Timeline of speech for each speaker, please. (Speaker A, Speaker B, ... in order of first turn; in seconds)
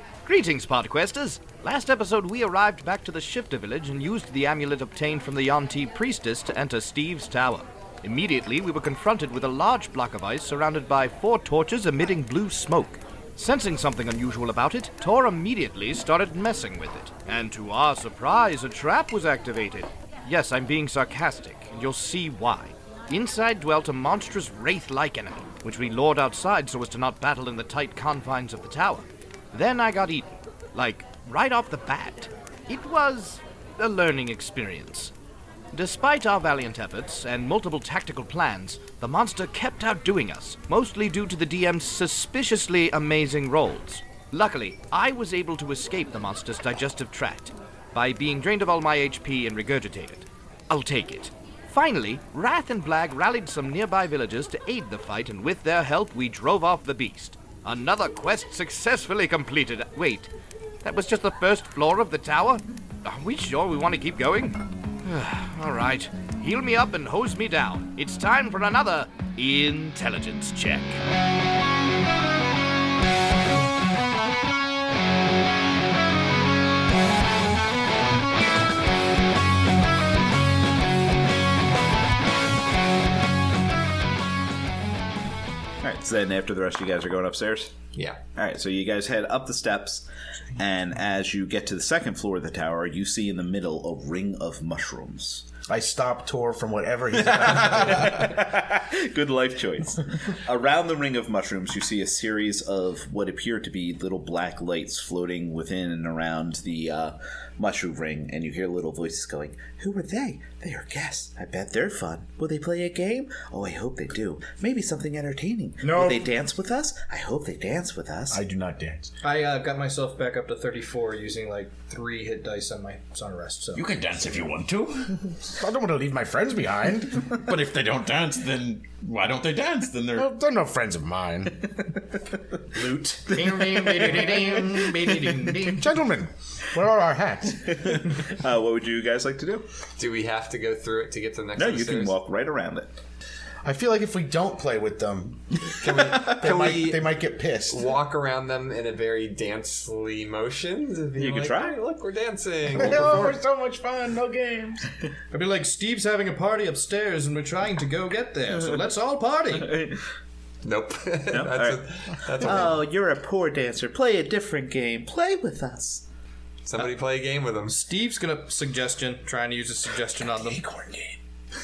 Speaker A: 0.2-35.1, 35.7-60.3, 60.8-71.0
Speaker B: 85.8-87.7, 88.3-95.5, 97.3-118.4, 133.7-135.2, 137.6-139.6, 141.6-142.9, 151.2-151.7, 159.5-160.0, 161.3-166.0
Speaker C: 95.7-98.3, 118.3-119.1, 125.4-127.4, 130.1-131.8, 135.6-137.8, 143.6-147.8, 152.7-154.9
Speaker D: 115.8-116.2, 119.2-123.8, 132.7-135.9, 155.3-159.8, 167.7-170.7
Speaker E: 123.7-125.4, 127.3-130.3, 170.7-171.1
Speaker F: 140.0-142.2, 145.8-153.3, 160.6-162.8, 166.6-167.8